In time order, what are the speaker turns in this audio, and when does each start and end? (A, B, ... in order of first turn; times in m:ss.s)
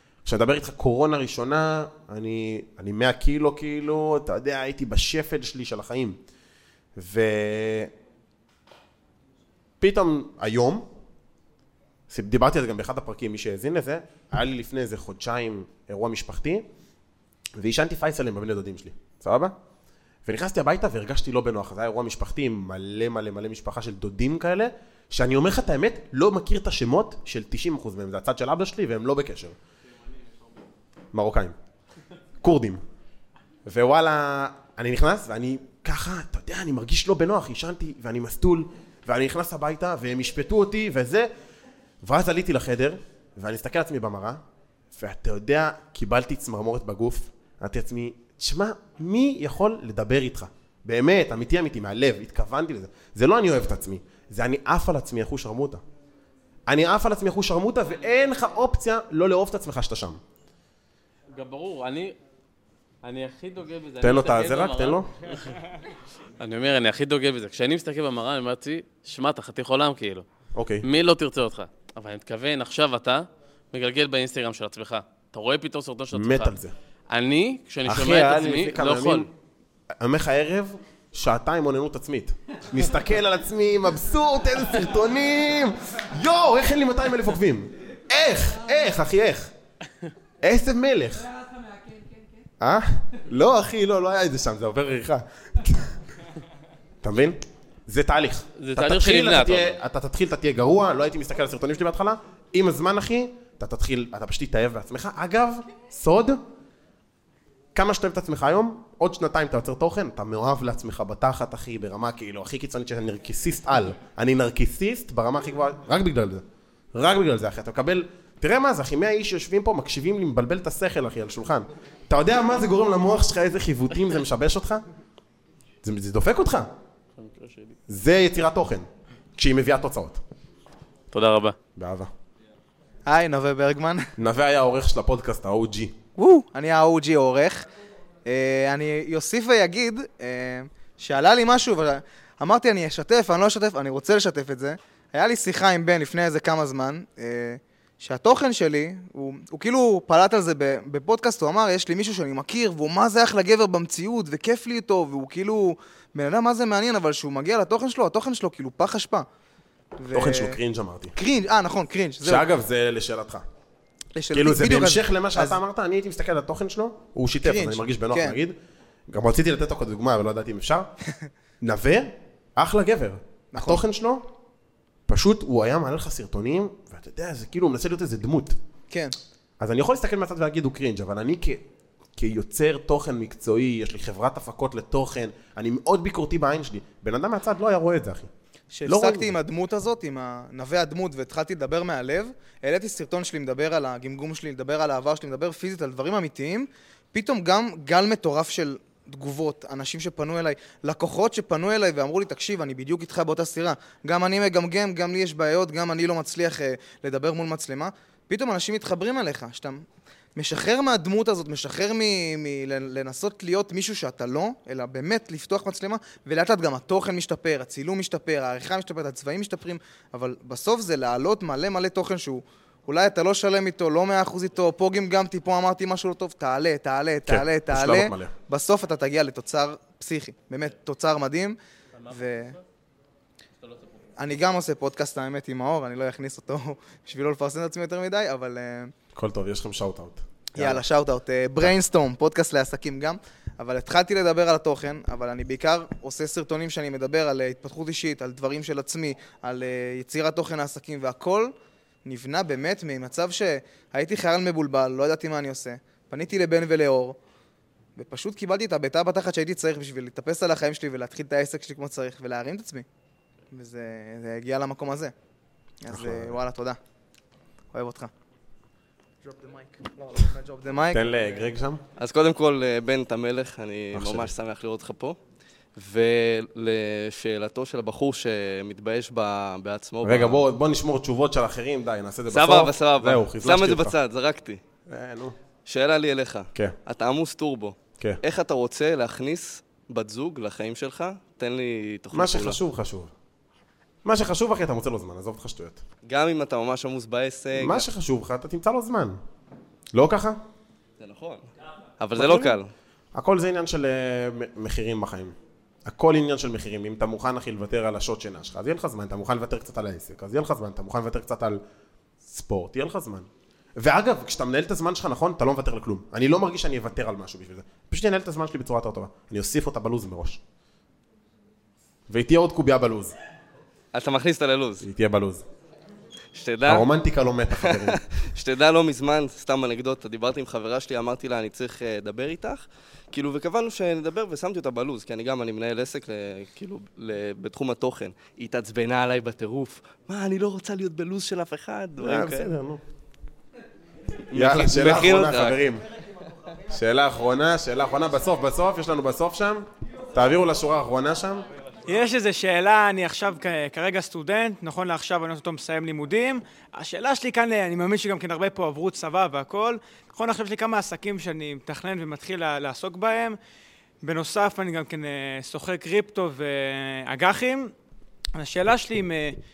0:00.2-0:06.2 A
0:07.0-0:07.9 A
0:09.8-0:10.9 A
0:12.1-0:16.6 A
0:17.6-0:19.5 A
0:20.2-0:29.5 A
0:31.1-0:31.5 A
0:32.4-0:32.8 A
0:33.6-0:41.3 A
0:42.0-0:44.4 A
0:45.0-0:55.8 A
0:56.7-1:00.2 A
1:01.3-1:02.2 B
1:03.0-1:05.5 B
1:04.0-1:05.1 A
1:06.4-1:10.2 B
1:10.5-1:10.8 A
1:10.8-1:16.6 B
1:16.1-1:16.7 A
1:17.1-1:19.3 B
1:17.8-1:19.3 A
1:20.0-1:29.5 A
1:30.4-1:31.3 A
1:32.6-1:36.0 A
1:37.0-1:46.4 A
1:38.6-1:39.8 B
1:47.7-2:04.8 A
2:05.8-2:06.7 A
2:07.2-2:07.7 B
2:07.9-2:10.2 A
2:11.1-2:11.6 B
2:11.8-2:12.1 A
2:13.1-2:14.1 C
2:14.2-2:15.9 A
2:16.2-2:17.6 C
2:18.2-2:39.2 C
2:40.0-2:40.6 C
2:40.1-2:41.1 A
2:41.2-2:42.4 C
2:42.2-2:43.4 A
2:44.2-2:45.6 C
2:44.3-2:48.6 A
2:47.4-2:48.4 C
2:49.1-2:50.9 A
2:51.6-2:54.2 A
2:53.5-2:53.8 C
2:55.1-2:58.6 A
2:59.6-3:01.6 A
3:02.2-3:08.3 A
3:08.7-3:29.8 C
3:08.8-3:09.3 A
3:30.4-3:52.6 C
3:47.2-3:48.3 A
3:54.2-3:58.9 C
3:59.1-4:00.8 A
4:00.6-4:11.5 C
4:12.0-4:17.2 C
4:18.0-4:22.8 C
4:23.5-4:25.1 C
4:25.8-4:26.8 C
4:25.9-4:26.4 A
4:27.7-4:28.1 C
4:29.2-4:31.0 C
4:30.9-4:31.8 A
4:32.0-4:35.2 D
4:33.9-4:34.3 A
4:35.8-4:40.4 D
4:40.0-4:43.9 A
4:42.3-4:44.6 D
4:44.9-4:45.3 A
4:45.6-4:52.6 D
4:52.1-4:53.1 A
4:54.0-4:55.8 A
4:56.0-4:57.9 D
4:57.6-4:59.2 A
4:59.9-5:00.4 A
5:01.0-5:02.7 D
5:02.1-5:02.6 A
5:03.1-5:11.6 A
5:12.3-5:20.4 A
5:22.1-5:23.1 A
5:23.9-5:24.8 D
5:24.8-5:25.4 A
5:26.3-5:26.9 D
5:26.6-5:28.0 A
5:27.5-5:42.5 D
5:42.0-5:42.8 A
5:44.3-5:45.6 D
5:44.3-5:45.8 A
5:46.7-5:51.4 A
5:51.9-6:03.4 E
6:04.0-6:07.7 E
6:08.4-6:09.4 E